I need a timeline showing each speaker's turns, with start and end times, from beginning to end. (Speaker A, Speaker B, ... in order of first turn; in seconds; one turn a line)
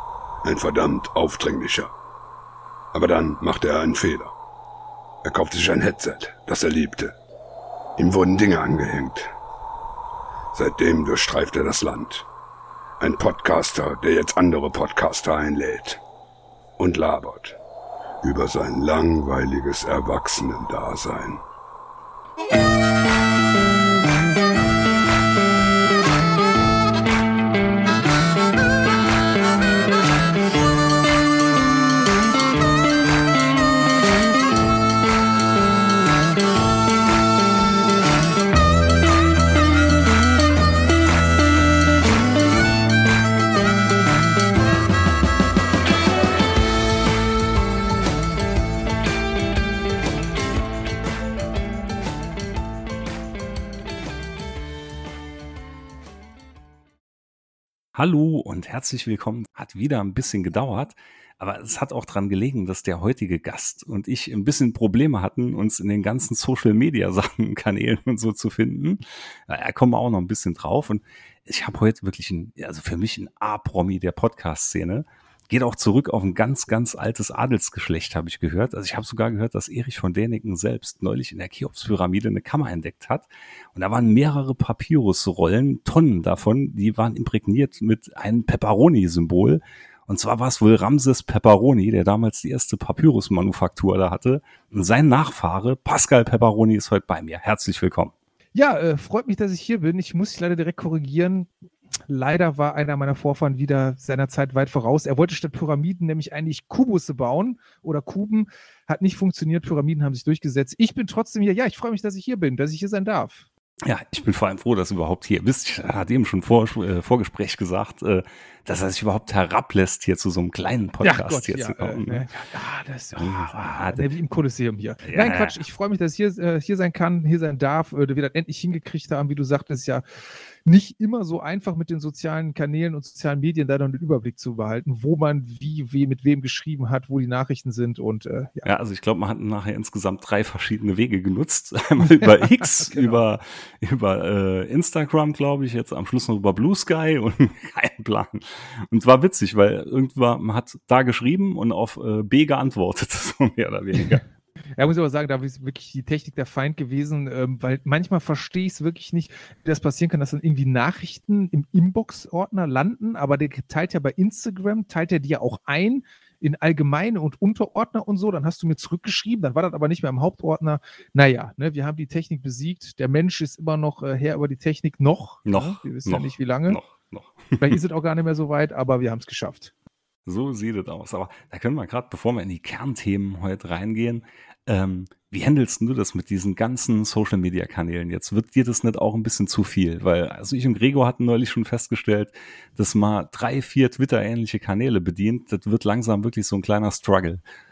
Speaker A: 0.4-1.9
Speaker A: 2.9-4.3
Speaker A: 5.2-7.1
Speaker A: 8.0-9.3
Speaker A: 10.5-12.3
Speaker A: 13.0-16.0
Speaker A: 16.8-17.6
Speaker A: 18.2-21.4
Speaker B: 57.9-98.1
Speaker C: 98.5-101.5
Speaker C: 102.1-113.5
Speaker B: 113.8-122.3
Speaker C: 121.0-130.0
Speaker B: 123.2-124.0
Speaker B: 125.0-125.6
Speaker C: 130.6-138.7
Speaker B: 138.6-154.2
Speaker C: 142.8-143.2
Speaker C: 154.8-176.8
Speaker B: 175.4-177.8
Speaker C: 177.6-179.7
Speaker B: 180.2-197.4